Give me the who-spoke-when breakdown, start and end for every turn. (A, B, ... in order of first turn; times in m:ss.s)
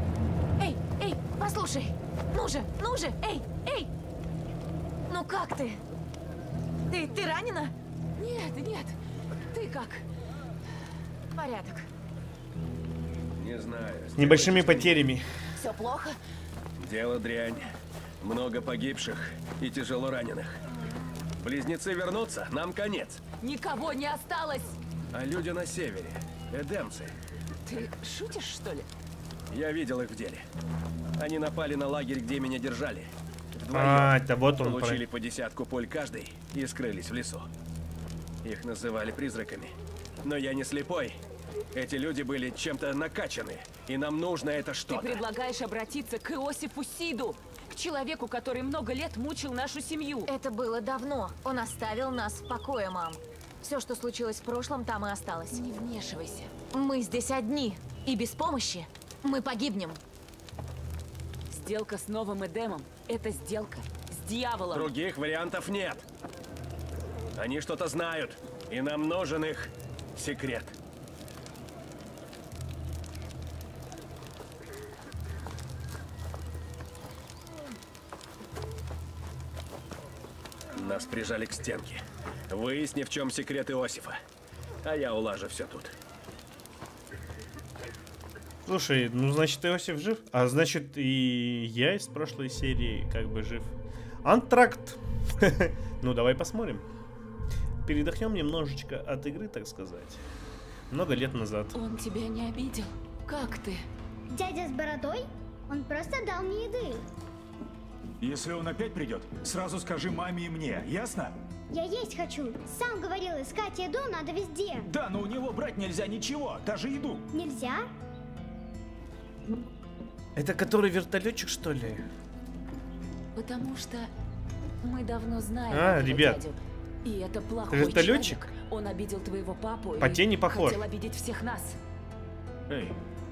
0:00.6-0:03.9 A
0:05.1-0:05.8 A
0:06.9-0:07.7 A
0:08.2-0:09.0 B
0:09.5-0:10.1 B
0:11.4-0:11.9 A
0:13.4-0:15.0 C
0:14.2-0:15.2 D
0:15.6-0:16.2 B
0:15.6-0:16.0 A
0:16.8-0:20.6 C
0:21.4-0:23.2 C
0:23.4-0:24.8 B
0:25.1-0:27.2 C
0:27.7-0:28.9 B
0:29.5-0:30.5 C
0:31.2-0:37.5 C
0:33.7-0:35.0 D
0:38.4-0:41.2 C
0:41.7-0:45.2 C
0:44.9-0:50.3 B
0:50.3-0:55.6 A
0:55.4-0:56.5 B
0:56.7-1:00.0 A
1:01.5-1:04.9 B
1:04.7-1:06.0 C
1:07.4-1:10.8 C
1:20.7-1:24.2 C
1:24.8-1:25.9 C
1:28.7-1:36.8 D
1:37.8-1:40.2 D
1:40.9-1:41.8 D
1:41.7-1:43.9 B
1:44.3-1:47.0 E
1:48.2-1:51.3 F
1:51.7-1:54.9 E
1:54.8-1:57.3 F
1:57.3-1:57.9 E
2:00.4-2:02.0 D
2:03.3-2:04.1 B
2:04.8-2:11.8 B
2:05.7-2:06.4 D
2:07.7-2:08.5 D
2:10.0-2:10.8 D
2:12.7-2:13.0 F